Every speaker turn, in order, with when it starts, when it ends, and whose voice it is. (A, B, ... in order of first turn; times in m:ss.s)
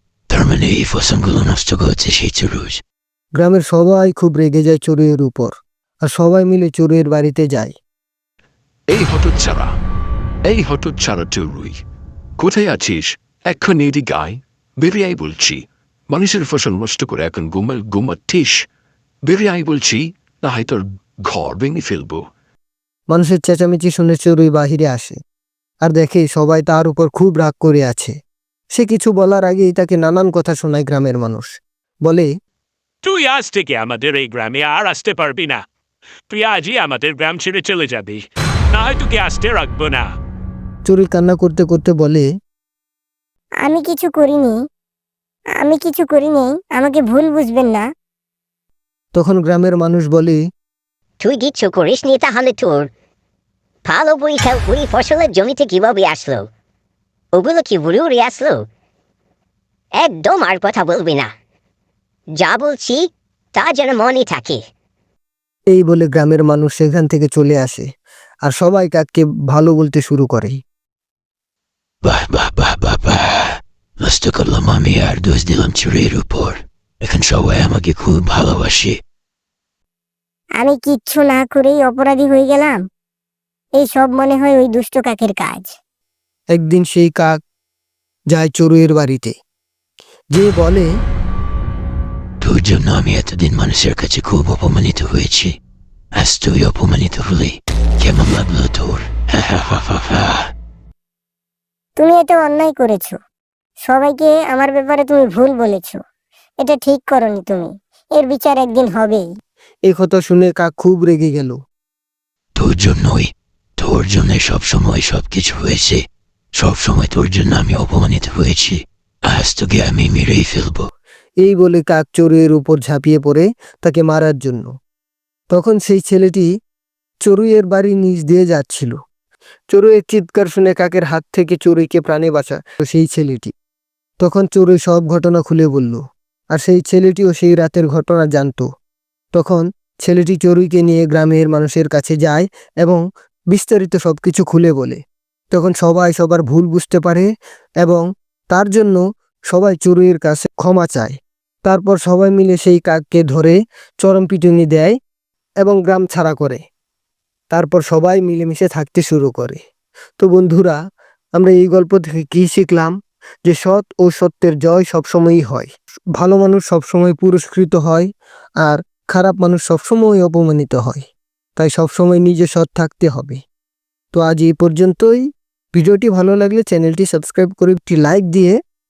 0:00.3-0:02.8 A
0:03.4-0:05.5 B
0:06.0-0:07.8 B
0:08.9-0:09.8 C
0:10.4-0:11.8 C
0:12.4-0:18.7 C
0:19.3-0:22.3 C
0:23.1-0:25.2 B
0:25.8-0:28.2 B
0:28.7-0:32.3 B
0:33.0-0:35.6 D
0:36.3-0:38.2 D
0:38.8-0:40.1 D
0:40.9-0:42.3 B
0:43.6-0:44.6 E
0:45.6-0:47.8 E
0:49.1-0:50.4 B
0:51.2-0:52.9 F
0:53.9-0:56.5 F
0:57.3-0:58.6 F
1:00.0-1:01.3 F
1:02.4-1:04.6 F
1:05.7-1:07.9 B
1:08.4-1:10.6 B
1:12.0-1:19.0 A
1:20.6-1:22.8 E
1:23.8-1:25.7 E
1:26.5-1:27.4 B
1:28.3-1:29.4 B
1:30.3-1:30.9 B
1:32.4-1:35.5 A
1:36.2-1:40.4 A
1:42.0-1:43.2 E
1:43.8-1:46.0 E
1:46.6-1:49.2 E
1:49.9-1:51.6 B
1:52.6-1:56.0 A
1:56.6-2:00.9 A
2:01.4-2:04.7 B
2:05.5-2:06.5 B
2:07.2-2:09.0 B
2:09.7-2:13.5 B
2:14.2-2:18.7 B
2:19.3-2:25.0 B
2:25.5-2:27.3 B
2:27.8-2:35.0 B
2:35.6-2:36.6 B
2:37.5-2:39.6 B
2:40.2-2:40.8 B
2:41.4-2:42.9 B
2:43.5-2:48.1 B
2:48.6-2:51.0 B
2:51.6-2:53.4 B
2:54.1-2:58.6 B